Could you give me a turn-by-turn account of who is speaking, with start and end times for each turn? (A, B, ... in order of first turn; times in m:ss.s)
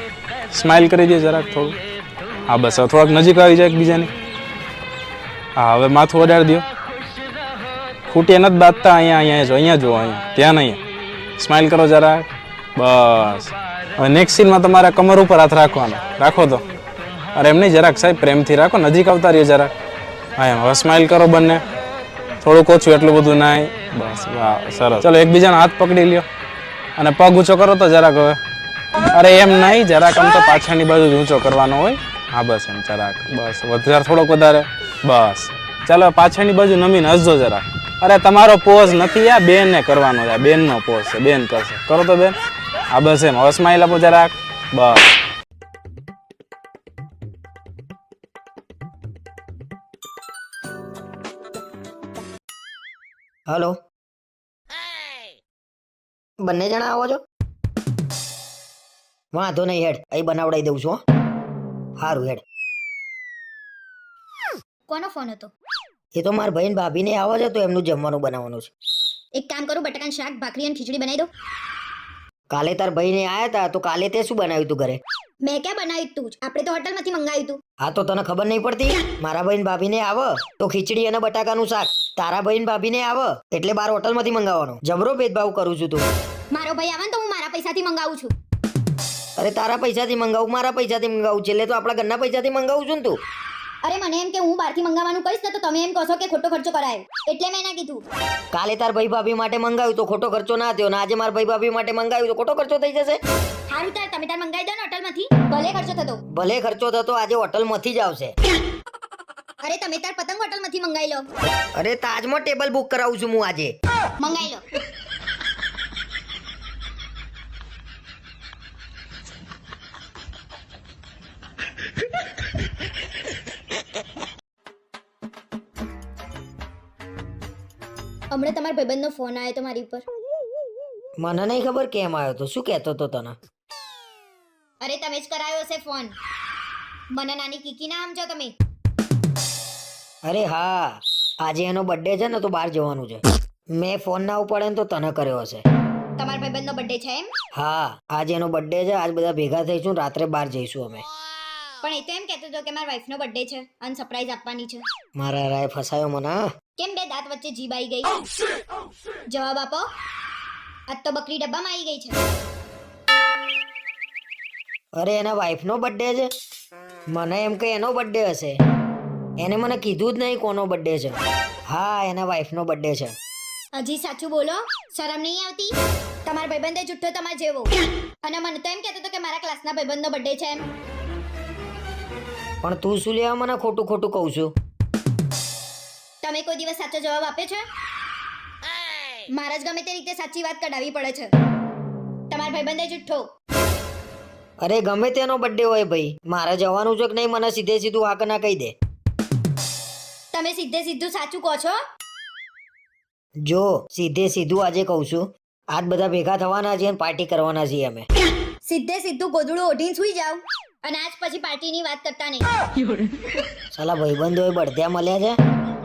0:00.5-0:01.8 A
0:02.5-0:04.1 A
0:05.6-0:06.6 A
0:08.1-0:10.8 A
0:11.4-0:16.6 A
0:17.3-0:19.7 A
0:20.4-0:21.6 A
0:22.4-0:26.2 A
0:27.0-0:28.4 A
0:29.1-0:42.4 A
0:42.9-0:45.0 A
0:53.5-0:53.8 B
0:56.4-0:57.2 B
0:59.3-1:01.0 B
1:02.0-1:02.4 B
1:04.9-1:05.5 C
1:06.1-1:08.7 B
1:09.4-1:11.3 C
1:12.5-1:15.0 B
1:15.4-1:17.6 C
1:17.8-1:26.0 B
1:26.5-1:28.3 C
1:29.4-1:33.2 B
1:33.8-1:38.0 C
1:38.5-1:43.2 B
1:43.7-1:46.2 C
1:46.3-1:48.3 B
1:49.6-1:51.2 C
1:51.8-1:53.7 B
1:54.2-1:54.6 C
2:08.3-2:10.0 C
2:11.2-2:13.4 B
2:14.8-2:16.1 C
2:17.1-2:18.5 C
2:20.2-2:23.2 B
2:23.8-2:25.6 B
2:26.2-2:27.3 C
2:27.5-2:31.0 B
2:31.8-2:34.8 C
2:35.2-2:36.4 B
2:36.8-2:38.2 C
2:39.3-2:39.9 C
2:40.9-2:42.2 C
2:45.0-2:46.3 B
2:47.1-2:48.6 B
2:49.4-2:51.2 B
2:51.7-2:53.1 B
2:53.8-2:55.7 C
2:56.2-2:57.7 C
2:58.2-3:00.6 C
3:02.6-3:04.5 B
3:06.2-3:07.6 C
3:09.3-3:11.3 C
3:12.3-3:13.2 C
3:14.6-3:18.7 B
3:20.3-3:21.8 C
3:23.4-3:28.1 B
3:28.6-3:32.4 C
3:33.7-3:35.4 B